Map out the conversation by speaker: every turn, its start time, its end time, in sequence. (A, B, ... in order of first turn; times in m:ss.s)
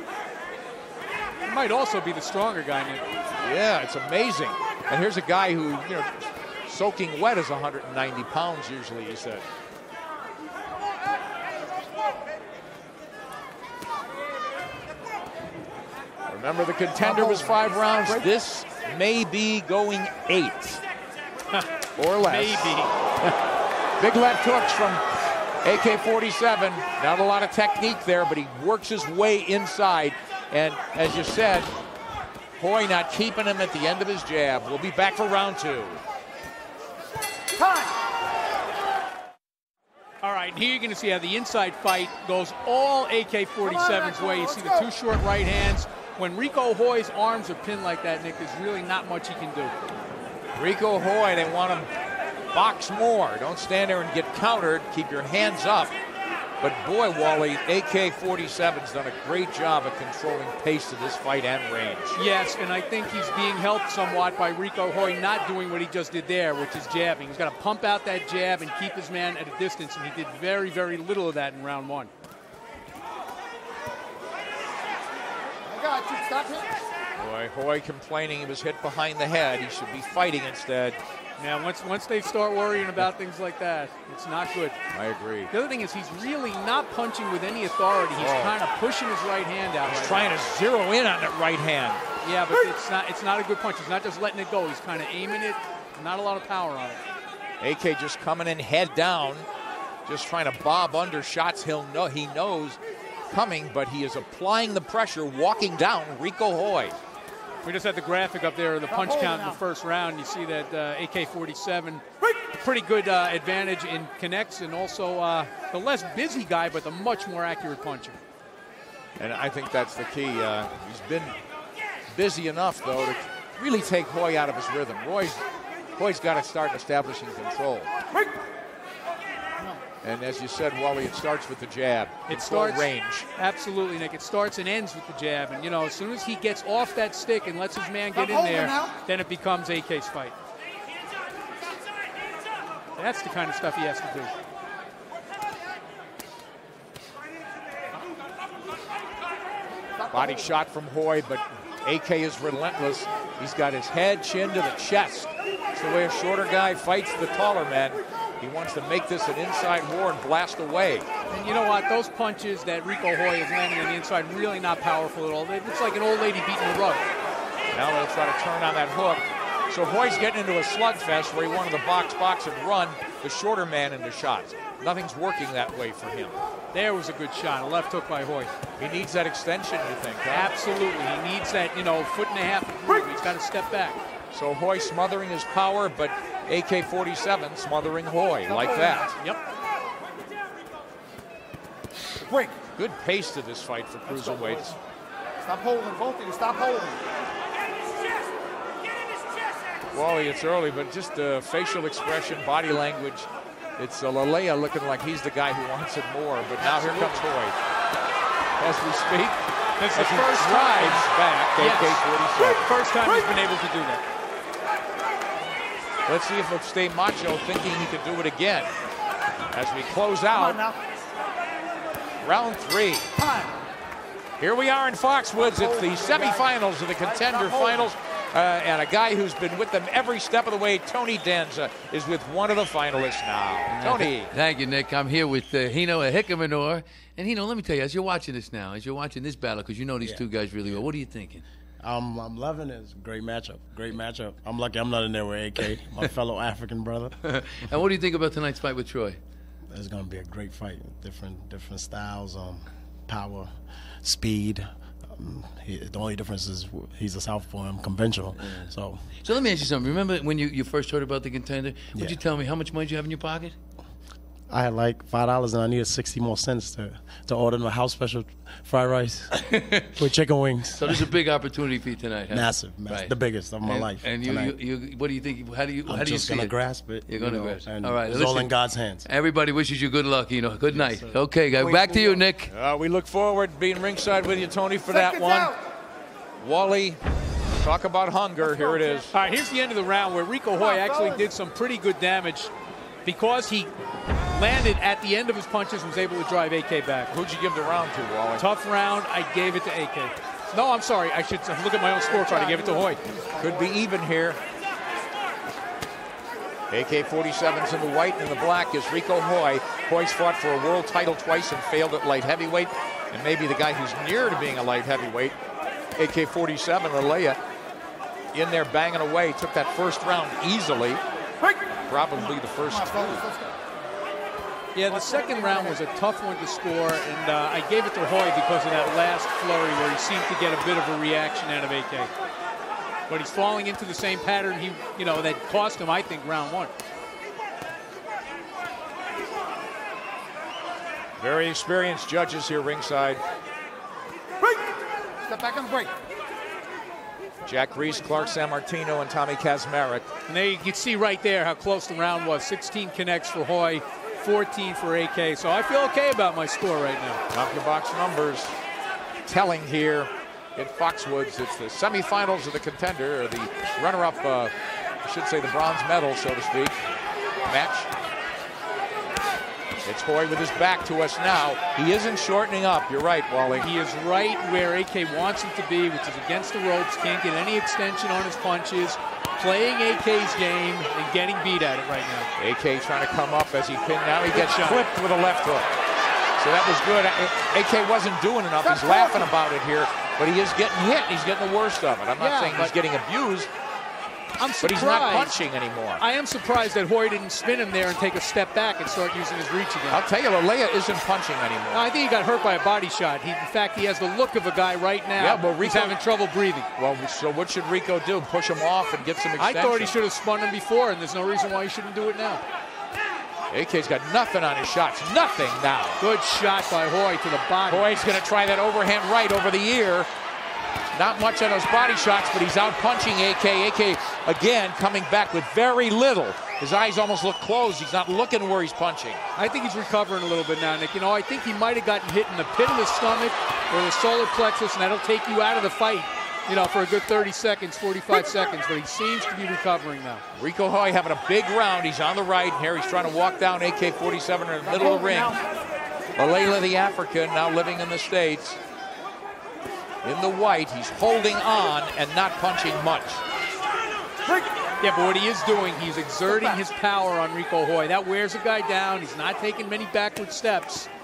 0:01.4-0:03.0 A
0:03.3-0:09.4 B
0:16.3-0:20.8 B
0:17.0-0:18.2 C
0:22.0-0:23.3 B
0:22.2-0:22.9 A
0:24.0-0:25.0 B
0:25.6-0:31.7 B
0:32.6-0:36.0 B
0:37.5-0:38.0 C
0:40.2-0:49.7 A
0:43.6-0:44.9 C
0:50.5-0:51.9 B
0:52.5-0:55.9 B
0:56.6-1:02.2 B
1:02.1-1:12.1 A
1:15.7-1:16.7 C
1:17.2-1:21.0 B
1:21.4-1:24.8 A
1:24.9-1:25.5 B
1:25.5-1:30.4 A
1:28.2-1:28.6 B
1:29.8-1:32.0 B
1:32.2-1:37.0 A
1:37.6-1:39.5 B
1:40.0-1:42.8 B
1:43.3-1:47.0 B
1:47.6-1:58.2 A
1:48.9-1:49.6 C
1:59.2-2:01.3 B
2:02.1-2:05.4 B
2:06.0-2:07.9 B
2:10.0-2:13.3 B
2:12.3-2:20.3 A
2:18.1-2:19.0 C
2:23.0-2:24.3 A
2:30.0-2:30.5 C
2:30.1-2:41.1 B
2:41.3-2:47.0 A
2:47.7-2:56.4 B
2:56.7-2:58.5 A
2:58.8-3:00.5 B
3:00.3-3:04.0 A
3:04.3-3:09.1 B
3:08.5-3:09.1 C
3:12.2-3:12.6 C
3:12.8-3:14.7 B
3:14.1-3:14.6 C
3:15.4-3:17.0 C
3:19.9-3:27.6 B
3:26.6-3:27.3 A
3:28.6-3:32.7 B
3:29.8-3:34.0 A
3:36.0-3:38.7 B
3:39.5-3:40.6 B
3:40.3-3:40.9 C
3:42.2-3:43.1 B
3:43.2-3:43.5 C
3:44.4-3:54.3 B
3:45.4-3:47.9 C
3:53.7-4:01.4 D
4:01.8-4:07.2 E
4:07.2-4:09.2 D
4:09.7-4:19.1 E
4:18.4-4:23.6 D
4:24.5-4:31.1 E
4:29.5-4:29.9 D
4:30.8-4:42.5 D
4:32.3-4:34.6 E
4:35.8-4:39.1 E
4:40.7-4:42.2 E
4:42.5-4:45.5 B
4:44.9-4:45.6 C
4:46.4-4:47.0 B
4:47.6-4:49.1 B
4:48.4-4:49.1 C
4:49.1-4:52.5 A
4:50.6-4:51.2 C
4:53.0-4:53.7 A
4:54.3-4:57.1 A
4:57.1-4:58.4 B
4:58.4-5:03.0 A
5:02.1-5:03.7 C
5:03.4-5:04.4 B
5:06.7-5:15.4 B
5:16.0-5:17.4 B
5:18.3-5:21.0 B
5:21.9-5:23.2 B
5:22.1-5:23.5 C
5:24.7-5:32.1 A
5:24.9-5:25.8 C
5:33.1-5:36.7 A
5:41.2-5:43.2 B
5:44.4-5:44.7 C
5:45.2-5:45.9 C
5:47.4-5:50.1 B
5:47.7-5:48.1 C
5:50.3-5:57.2 A
5:57.3-5:58.6 B
5:59.2-6:06.8 B
6:07.4-6:07.9 B
6:09.8-6:13.7 B
6:13.6-6:22.3 A
6:22.4-6:25.8 B
6:24.3-6:24.8 A
6:26.4-6:33.5 B
6:28.6-6:29.3 C
6:32.2-6:32.7 A
6:34.4-6:35.3 A
6:34.6-6:36.0 B
6:36.0-6:40.0 A
6:39.9-6:41.9 B
6:41.7-6:46.7 A
6:45.2-6:46.0 B
6:46.8-6:49.9 B
6:49.4-6:52.4 A
6:53.5-6:56.0 B
6:56.0-6:58.0 A
6:57.7-7:00.1 B
7:00.9-7:09.2 B
7:09.4-7:20.2 A
7:20.3-7:25.4 B
7:24.6-7:25.4 C
7:26.2-7:28.6 B
7:30.0-7:33.2 B
7:34.2-7:34.5 C
7:34.8-7:40.9 A
7:36.2-7:36.6 C